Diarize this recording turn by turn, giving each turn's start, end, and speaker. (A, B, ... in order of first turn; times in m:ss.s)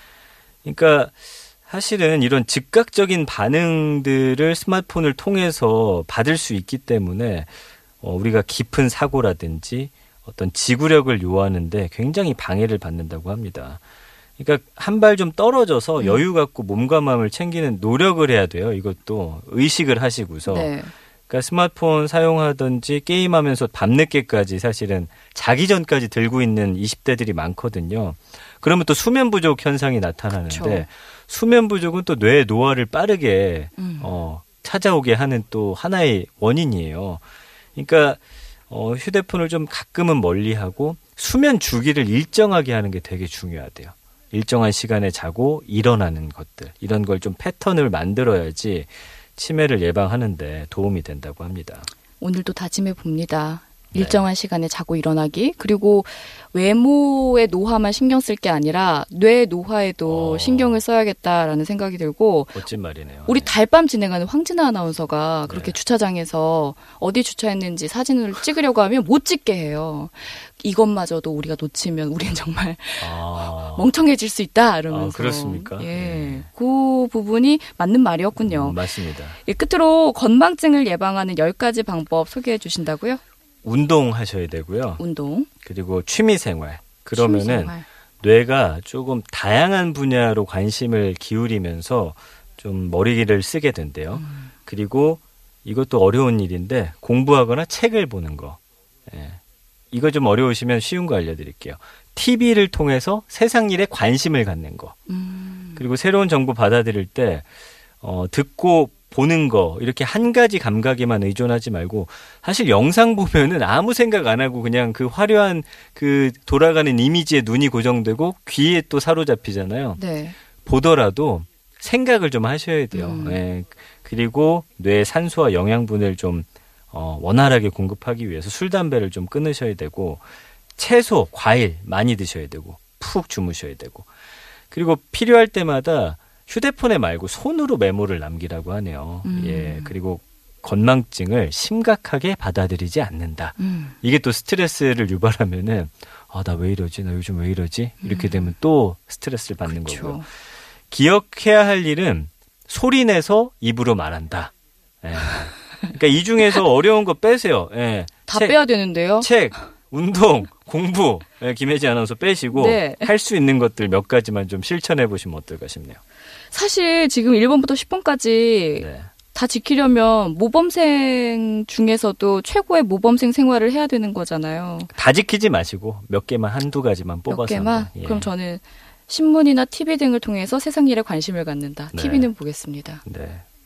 0:00.6-0:13.8 A
0:14.4-0:20.8 A
0:16.0-0:16.2 B
0:20.5-0:20.9 B
0:21.3-0:37.2 A
0:30.5-0:30.9 B
0:33.8-0:34.1 B
0:37.8-0:51.9 A
0:52.2-1:02.6 B
0:53.9-0:54.3 A
1:00.1-1:00.8 A
1:02.5-1:03.5 A
1:03.3-1:23.2 B
1:05.5-1:05.8 A
1:13.0-1:13.9 A
1:14.9-1:16.5 A
1:18.4-1:19.4 A
1:23.6-1:25.0 A
1:25.0-1:25.5 B
1:25.6-1:39.4 A
1:27.1-1:27.8 B
1:34.1-1:34.5 B
1:39.9-1:45.0 A
1:45.1-1:45.8 B
1:45.8-1:47.5 A
1:48.0-2:00.0 A
2:00.0-2:00.4 B
2:00.6-2:10.2 A
2:02.9-2:03.4 B
2:10.8-2:14.1 A
2:14.7-2:30.2 A
2:19.2-2:19.9 B
2:23.6-2:24.0 B
2:28.0-2:28.5 B
2:29.6-2:30.3 B
2:30.9-2:46.0 A
2:38.3-2:39.3 B
2:42.5-2:43.1 B
2:46.5-2:54.9 B
2:48.8-2:49.1 A
2:54.9-2:58.3 A
2:57.3-3:03.0 B
3:01.9-3:02.3 A
3:03.0-3:03.4 A